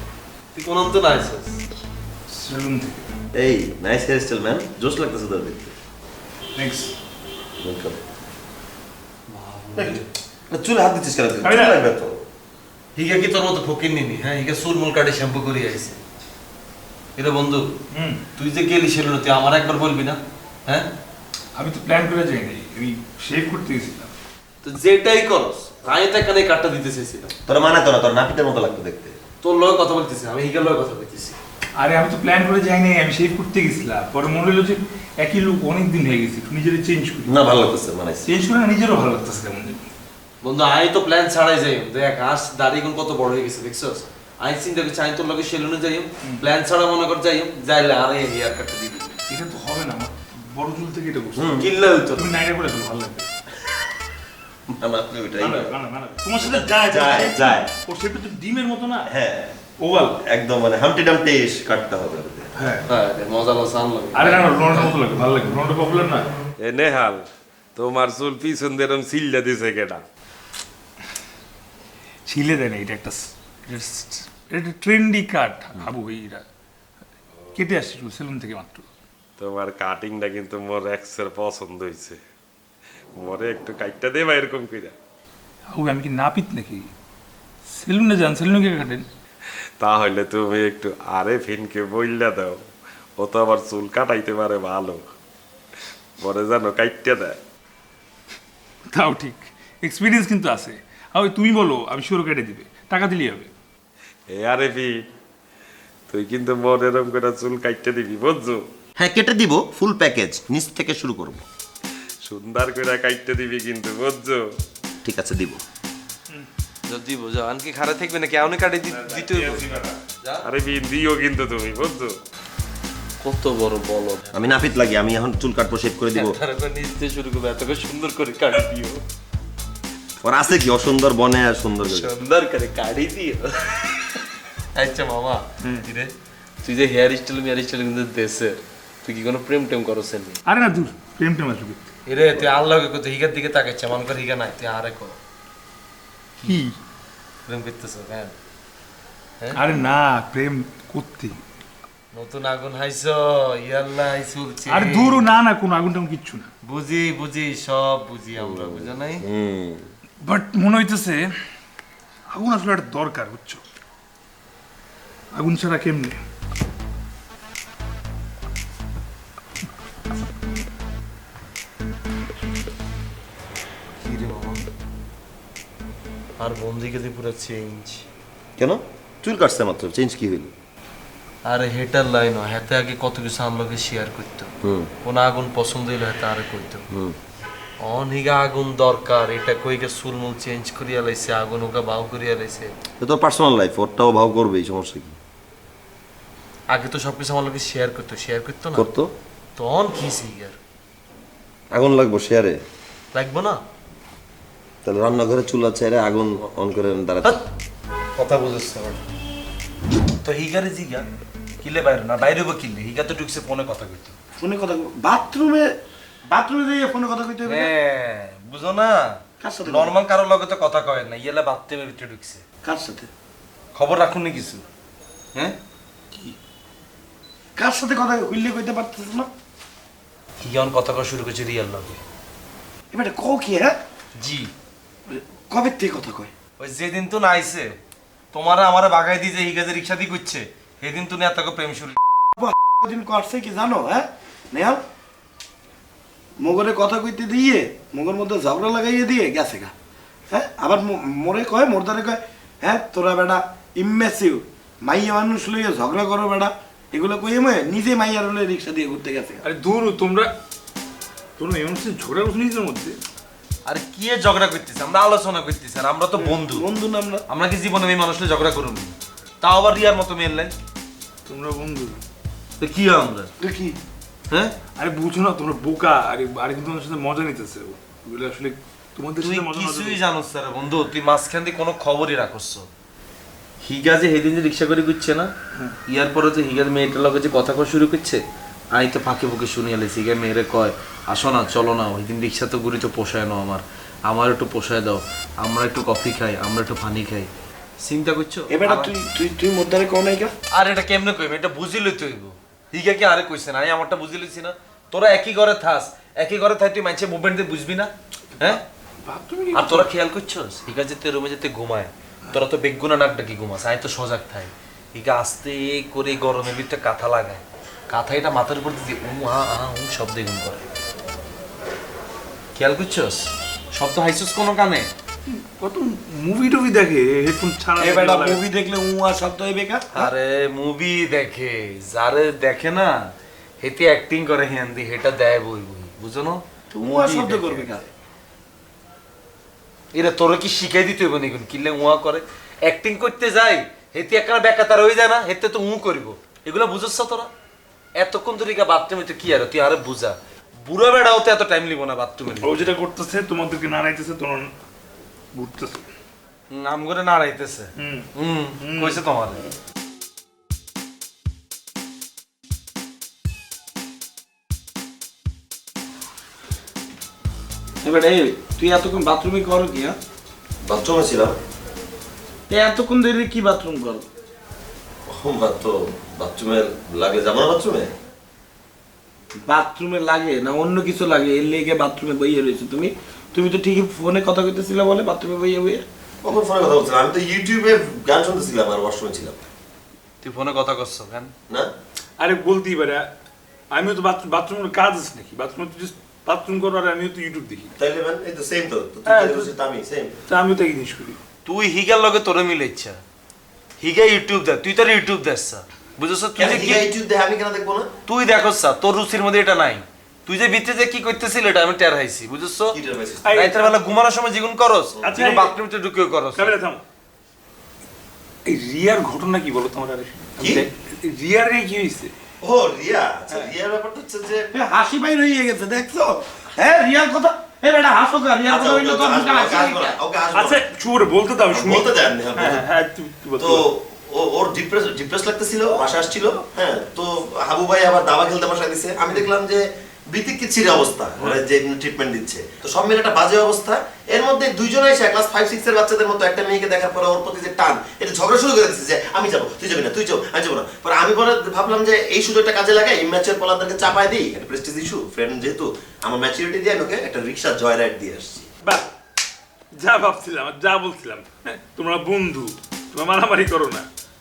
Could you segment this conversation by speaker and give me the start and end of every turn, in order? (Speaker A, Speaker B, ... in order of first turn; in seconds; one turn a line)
Speaker A: 0.5-1.6
Speaker B: 2.3-3.1
Speaker C: 3.3-5.7
Speaker B: 6.5-6.9
Speaker C: 7.6-8.0
Speaker A: 9.3-10.0
Speaker C: 9.8-12.2
Speaker B: 11.4-11.8
Speaker A: 12.9-16.0
Speaker A: 17.1-17.7
Speaker B: 17.9-18.2
Speaker A: 18.4-20.9
Speaker B: 21.6-24.1
Speaker A: 24.6-27.3
Speaker C: 27.4-29.2
Speaker A: 29.4-31.4
Speaker B: 31.8-37.3
Speaker C: 37.2-38.3
Speaker B: 38.2-39.8
Speaker A: 40.4-49.2
Speaker B: 49.3-51.6
Speaker C: 51.4-51.6
Speaker A: 51.5-52.3
Speaker B: 52.1-53.3
Speaker C: 54.7-55.7
Speaker B: 55.4-59.1
Speaker C: 56.4-57.7
Speaker C: 59.0-59.5
Speaker B: 59.8-60.2
Speaker C: 60.2-62.5
Speaker B: 62.5-62.8
Speaker A: 62.9-64.9
Speaker B: 64.1-66.2
Speaker D: 66.6-70.0
Speaker B: 72.2-76.4
Speaker B: 77.5-78.9
Speaker D: 79.4-82.2
Speaker D: 83.2-84.9
Speaker B: 85.7-86.9
Speaker B: 87.7-89.0
Speaker D: 89.8-92.6
Speaker D: 93.2-95.1
Speaker D: 96.2-97.4
Speaker B: 98.9-103.5
Speaker D: 104.3-105.0
Speaker D: 106.1-108.7
Speaker C: 109.0-111.4
Speaker D: 112.2-114.4
Speaker C: 115.0-115.6
Speaker A: 116.9-120.5
Speaker D: 119.1-119.8
Speaker D: 120.4-122.1
Speaker A: 123.2-124.5
Speaker C: 124.3-126.4
Speaker A: 126.1-129.0
Speaker C: 130.2-132.1
Speaker A: 131.9-134.0
Speaker A: 134.7-140.4
Speaker B: 140.4-141.8
Speaker A: 142.1-145.2
Speaker B: 146.4-146.8
Speaker A: 147.5-148.3
Speaker B: 149.5-151.4
Speaker A: 152.1-155.2
Speaker B: 154.7-156.5
Speaker A: 156.6-159.2
Speaker C: 158.4-159.9
Speaker B: 160.2-161.3
Speaker B: 162.3-163.6
Speaker B: 165.3-166.2
Speaker A: 174.0-174.6
Speaker A: 176.4-178.0
Speaker C: 178.6-180.5
Speaker A: 181.4-184.5
Speaker C: 184.6-184.9
Speaker A: 185.0-186.8
Speaker C: 186.9-187.2
Speaker A: 187.8-192.7
Speaker C: 193.0-195.2
Speaker A: 196.7-198.8
Speaker C: 198.7-199.1
Speaker A: 199.6-200.6
Speaker C: 201.7-202.6
Speaker A: 203.1-203.6
Speaker C: 204.8-207.4
Speaker A: 208.2-209.0
Speaker A: 210.2-211.1
Speaker A: 211.6-214.1
Speaker E: 214.4-215.7
Speaker E: 216.3-217.7
Speaker A: 217.4-222.4
Speaker E: 219.4-220.0
Speaker E: 222.6-223.1
Speaker A: 223.7-224.6
Speaker E: 227.6-229.3
Speaker A: 230.4-232.0
Speaker E: 232.9-233.8
Speaker A: 234.2-234.5
Speaker E: 235.1-236.3
Speaker A: 236.6-237.8
Speaker A: 238.3-242.0
Speaker E: 242.4-244.8
Speaker E: 246.4-249.7
Speaker E: 250.3-259.4
Speaker B: 259.4-260.3
Speaker B: 261.4-263.0
Speaker A: 263.6-266.6
Speaker E: 266.2-267.2
Speaker A: 267.3-270.5
Speaker B: 271.3-272.0
Speaker A: 272.6-273.3
Speaker E: 273.4-273.8
Speaker B: 274.8-280.0
Speaker A: 279.2-282.7
Speaker A: 283.6-285.3
Speaker A: 285.9-298.9
Speaker E: 298.5-300.3
Speaker A: 300.5-308.6
Speaker B: 308.4-309.9
Speaker A: 309.5-320.7
Speaker A: 322.5-324.9
Speaker B: 325.3-328.4
Speaker E: 327.8-330.1
Speaker A: 329.9-337.8
Speaker E: 336.7-337.8
Speaker A: 339.9-347.3
Speaker A: 347.9-352.7
Speaker B: 352.4-354.5
Speaker B: 355.3-355.9
Speaker A: 356.5-359.4
Speaker B: 357.8-358.1
Speaker B: 358.6-359.0
Speaker E: 367.8-370.0
Speaker C: 370.6-371.4
Speaker E: 372.5-374.0
Speaker C: 375.1-377.9
Speaker E: 379.4-385.8
Speaker C: 386.2-389.5
Speaker A: 390.2-391.3
Speaker B: 392.2-393.1
Speaker B: 393.7-397.7
Speaker C: 397.8-400.2
Speaker B: 399.1-399.5
Speaker B: 400.3-401.2
Speaker A: 401.4-403.0
Speaker A: 403.8-406.9
Speaker C: 406.4-407.9
Speaker A: 408.1-412.8
Speaker C: 412.7-413.3
Speaker B: 413.2-413.8
Speaker A: 413.3-416.5
Speaker B: 415.0-415.6
Speaker B: 416.3-416.8
Speaker B: 418.4-422.1
Speaker C: 420.4-420.6
Speaker C: 422.4-424.5
Speaker E: 424.5-429.9
Speaker C: 428.5-430.6
Speaker B: 430.3-433.7
Speaker C: 431.5-432.6
Speaker C: 433.4-458.5
Speaker B: 458.6-458.9
Speaker B: 459.7-463.9